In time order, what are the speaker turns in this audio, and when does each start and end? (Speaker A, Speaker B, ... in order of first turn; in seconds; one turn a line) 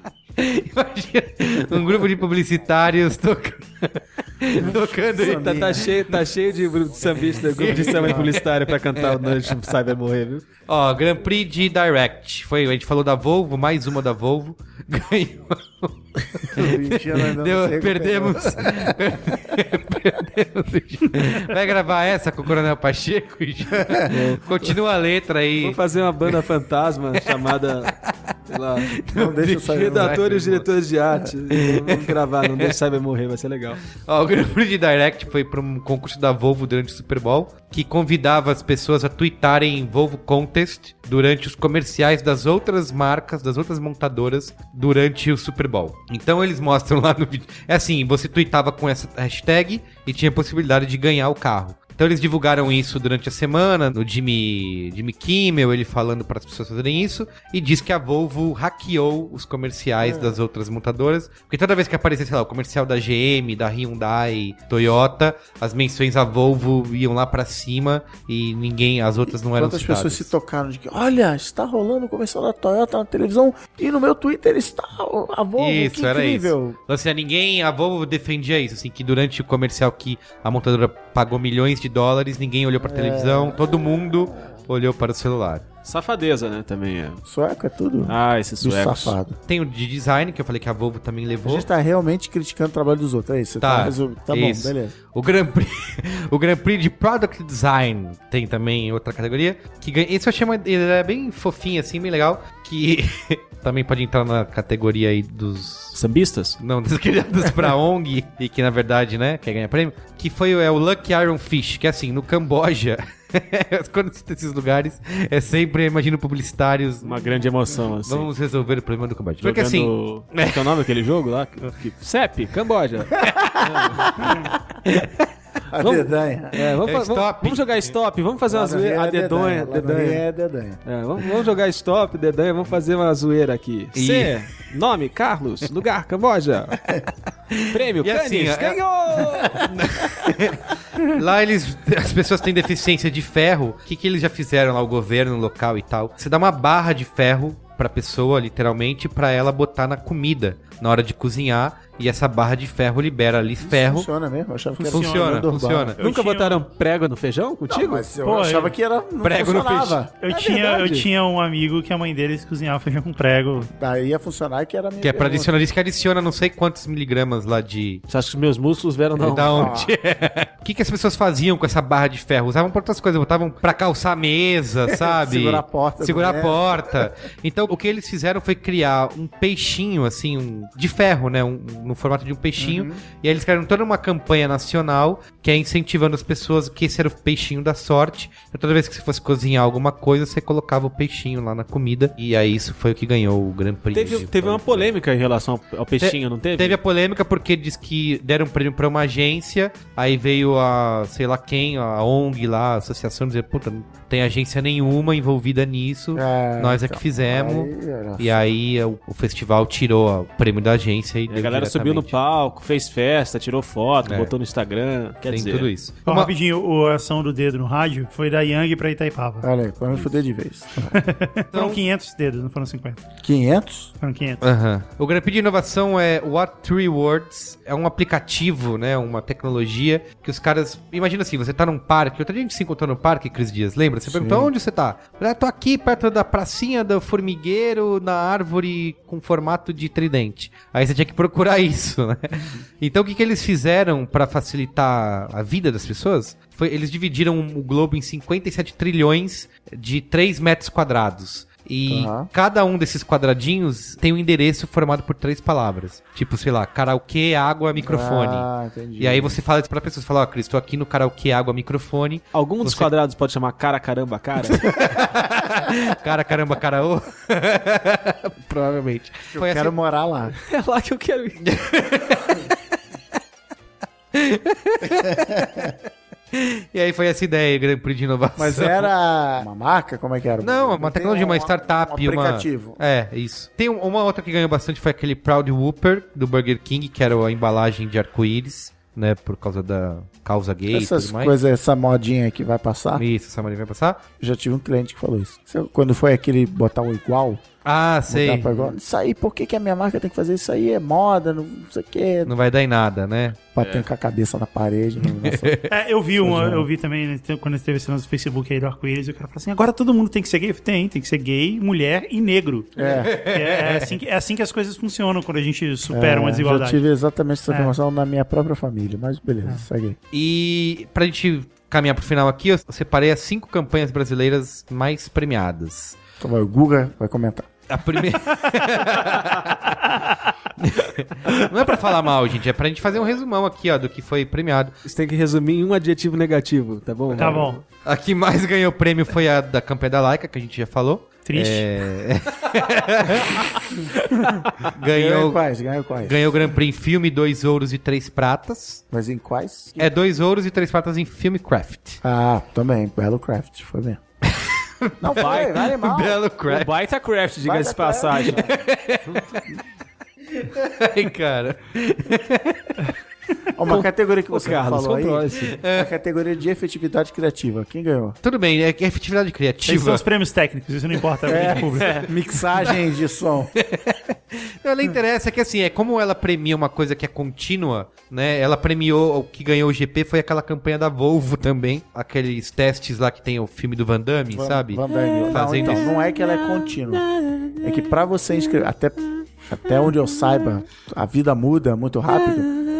Speaker A: 0.4-6.3
Speaker B: 4.6-5.9
Speaker C: 5.2-10.4
Speaker A: 7.2-9.5
Speaker B: 8.1-8.3
Speaker A: 10.7-26.3
Speaker B: 16.5-19.4
Speaker C: 24.1-24.7
Speaker C: 25.6-27.9
Speaker C: 28.5-28.9
Speaker A: 29.0-30.7
Speaker B: 29.1-30.2
Speaker C: 29.6-33.8
Speaker A: 31.5-32.7
Speaker A: 34.0-70.3
Speaker B: 60.0-60.4
Speaker B: 69.3-76.8
Speaker A: 75.6-85.6
Speaker B: 82.8-84.1
Speaker C: 85.8-87.2
Speaker B: 87.2-89.4
Speaker C: 88.1-89.1
Speaker A: 89.5-91.7
Speaker B: 91.4-94.9
Speaker A: 93.6-106.0
Speaker C: 105.9-106.6
Speaker A: 106.6-117.3
Speaker C: 117.0-118.3
Speaker A: 118.0-120.8
Speaker C: 119.4-124.3
Speaker B: 123.2-124.6
Speaker B: 125.7-126.7
Speaker C: 125.8-130.2
Speaker A: 126.8-127.9
Speaker B: 128.5-130.8
Speaker C: 130.8-136.8
Speaker A: 133.9-134.4
Speaker A: 137.5-154.1
Speaker C: 137.7-139.7
Speaker B: 153.6-155.9
Speaker D: 154.8-155.5
Speaker A: 154.9-156.0
Speaker D: 156.0-156.6
Speaker C: 156.0-158.1
Speaker B: 157.7-161.0
Speaker D: 158.2-158.7
Speaker A: 159.2-160.0
Speaker D: 160.2-163.7
Speaker C: 160.5-161.0
Speaker B: 163.7-165.5
Speaker A: 165.0-168.0
Speaker C: 168.1-169.7
Speaker A: 169.2-194.9
Speaker B: 169.4-169.9
Speaker B: 174.9-177.0
Speaker B: 182.6-183.0
Speaker C: 193.9-196.8
Speaker A: 196.0-212.1
Speaker B: 206.1-208.3
Speaker C: 211.3-215.7
Speaker A: 214.0-214.3
Speaker A: 215.3-216.3
Speaker D: 216.1-219.4
Speaker B: 219.4-221.0
Speaker D: 220.9-223.0
Speaker A: 221.5-221.8
Speaker B: 223.2-223.9
Speaker D: 224.0-224.4
Speaker A: 224.4-262.9
Speaker B: 234.1-234.5
Speaker B: 251.9-252.3
Speaker B: 257.8-259.4
Speaker C: 262.3-264.7
Speaker A: 264.5-269.7
Speaker B: 269.3-270.3
Speaker C: 270.4-271.4
Speaker A: 271.4-272.6
Speaker A: 274.1-275.7
Speaker B: 275.1-275.6
Speaker A: 276.3-278.9
Speaker B: 278.4-282.8
Speaker A: 280.4-291.3
Speaker B: 290.7-293.0
Speaker A: 292.9-294.0
Speaker B: 294.2-297.4
Speaker A: 297.6-298.5
Speaker B: 298.1-302.3
Speaker A: 302.2-303.4
Speaker B: 303.5-305.6
Speaker C: 303.6-303.9
Speaker A: 305.0-305.7
Speaker D: 305.7-316.8
Speaker B: 306.2-306.7
Speaker B: 312.8-313.1
Speaker A: 313.0-314.0
Speaker B: 315.9-320.0
Speaker A: 320.1-326.0
Speaker B: 326.2-327.5
Speaker A: 327.7-329.8
Speaker A: 330.6-334.8
Speaker C: 334.8-337.6
Speaker A: 337.2-345.4
Speaker D: 337.2-337.6
Speaker D: 341.2-341.6
Speaker B: 344.8-346.2
Speaker A: 346.0-348.8
Speaker B: 348.9-349.9
Speaker A: 349.8-352.0
Speaker B: 352.0-354.0
Speaker A: 354.3-356.7
Speaker B: 355.0-356.2
Speaker C: 355.2-355.6
Speaker C: 356.5-358.5
Speaker B: 357.4-358.6
Speaker A: 358.3-359.4
Speaker A: 360.3-362.9
Speaker B: 363.5-368.2
Speaker C: 363.7-365.6
Speaker A: 365.5-365.9
Speaker A: 368.2-370.0
Speaker D: 369.6-372.1
Speaker A: 371.2-372.8
Speaker B: 371.2-373.5
Speaker A: 373.6-385.9
Speaker B: 384.3-387.0
Speaker B: 387.6-392.5